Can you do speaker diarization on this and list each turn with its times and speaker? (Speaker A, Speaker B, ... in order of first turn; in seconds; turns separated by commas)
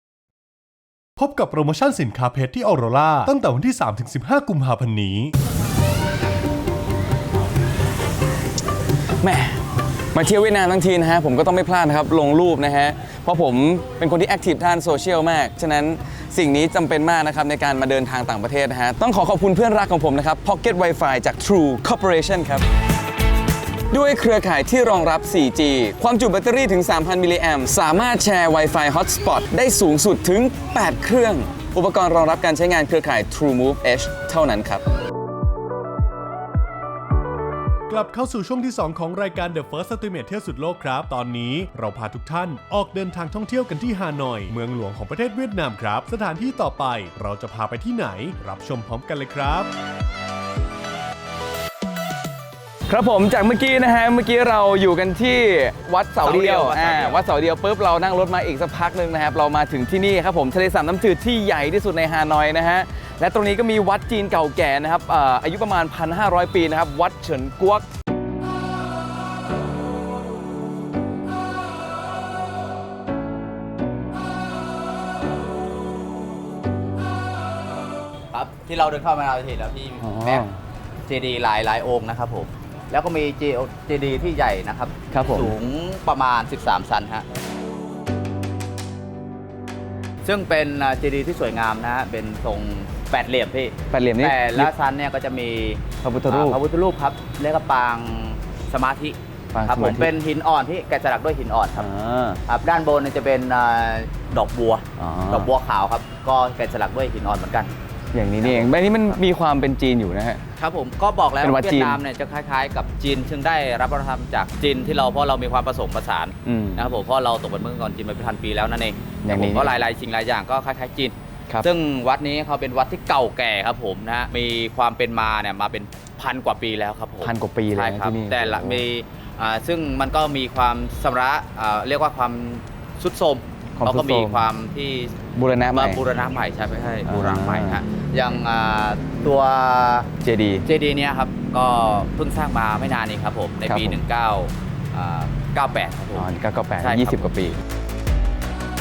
Speaker A: 1.2-5.3, Speaker B: 9.2-9.6, Speaker B: 10.1-22.6, Speaker B: 23.9-34.8, Speaker A: 37.9-49.7, Speaker B: 52.9-67.8, Speaker C: 56.2-57.2, Speaker C: 78.3-80.4, Speaker B: 80.0-80.5, Speaker C: 81.0-87.2, Speaker B: 85.1-85.5, Speaker C: 90.2-101.9, Speaker B: 93.9-94.7, Speaker B: 96.0-96.6, Speaker B: 99.5-100.1, Speaker B: 101.8-102.4, Speaker C: 102.5-107.7, Speaker B: 105.0-105.5, Speaker B: 108.1-110.4, Speaker C: 108.4-109.2, Speaker C: 110.6-135.1, Speaker B: 111.4-112.0, Speaker B: 116.4-116.9, Speaker B: 119.2-119.7, Speaker B: 127.2-128.8, Speaker B: 133.8-134.3, Speaker B: 135.4-135.9, Speaker C: 135.7-140.1, Speaker B: 137.1-137.7, Speaker B: 140.2-140.6, Speaker C: 140.6-146.3, Speaker B: 143.7-143.9, Speaker B: 146.2-147.5, Speaker C: 146.8-147.2